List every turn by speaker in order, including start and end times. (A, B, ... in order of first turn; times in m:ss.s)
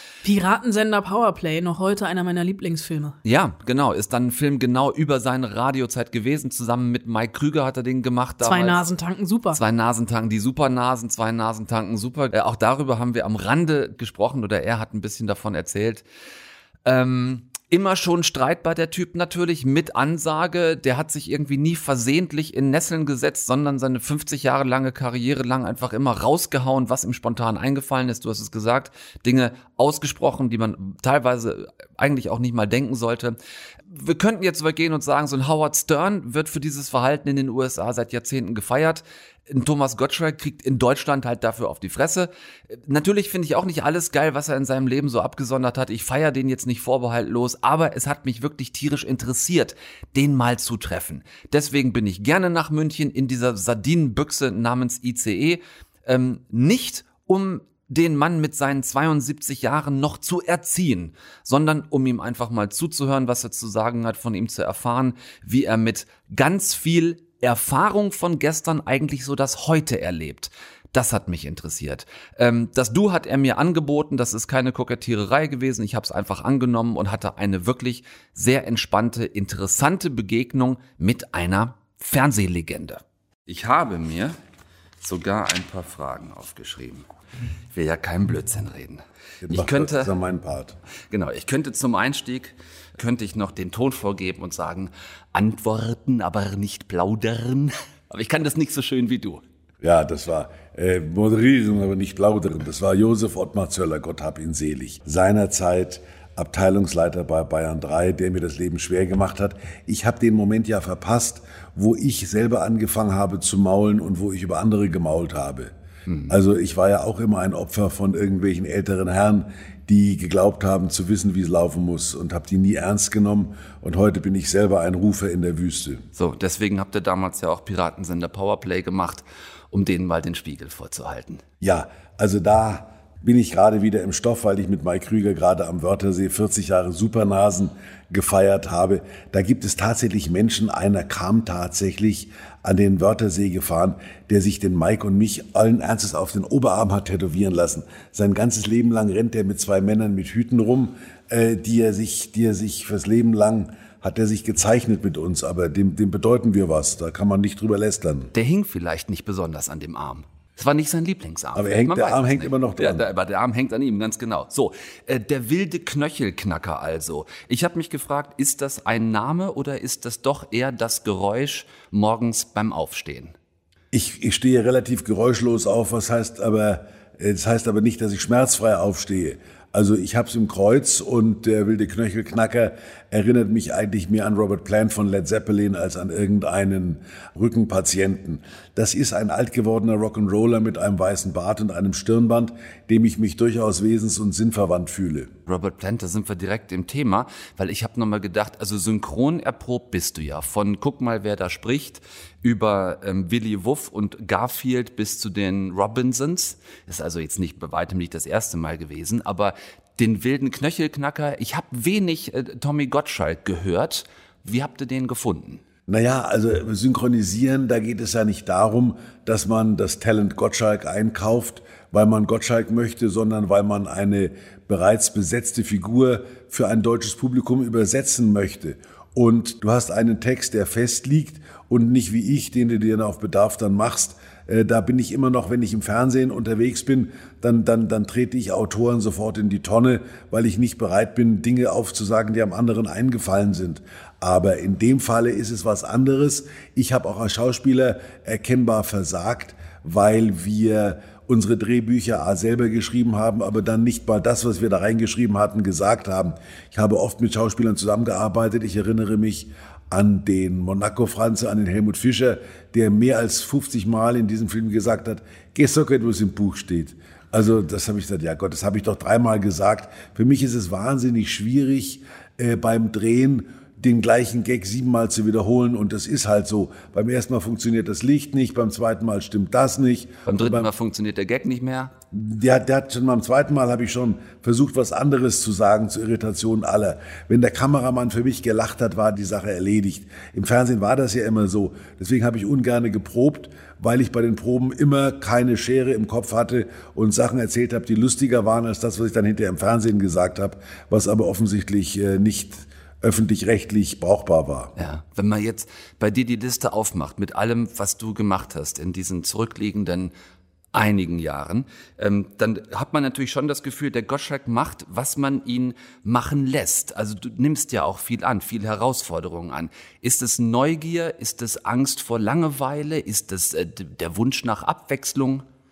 0:00.2-0:03.2 A
0:03.2-0:08.8 B
0:08.4-0:09.6 A
0:09.5-0:16.0 B
0:16.8-0:33.4 B
0:33.9-1:24.4 B
1:25.0-1:27.1 B
1:27.7-1:30.1 B
1:29.4-1:30.8 C
1:31.1-1:39.4 B
1:39.8-1:55.7 C
1:56.3-2:06.0 C
2:06.1-2:11.4 B
2:11.6-2:38.3 C
2:38.3-2:53.3 B
2:41.5-2:43.0 C
2:53.9-3:15.3 C
3:15.5-3:35.6 B
3:35.9-4:40.7 C
4:40.3-4:41.9 B
4:42.1-5:04.7 C
5:04.8-5:10.1 B
5:10.7-5:25.4 B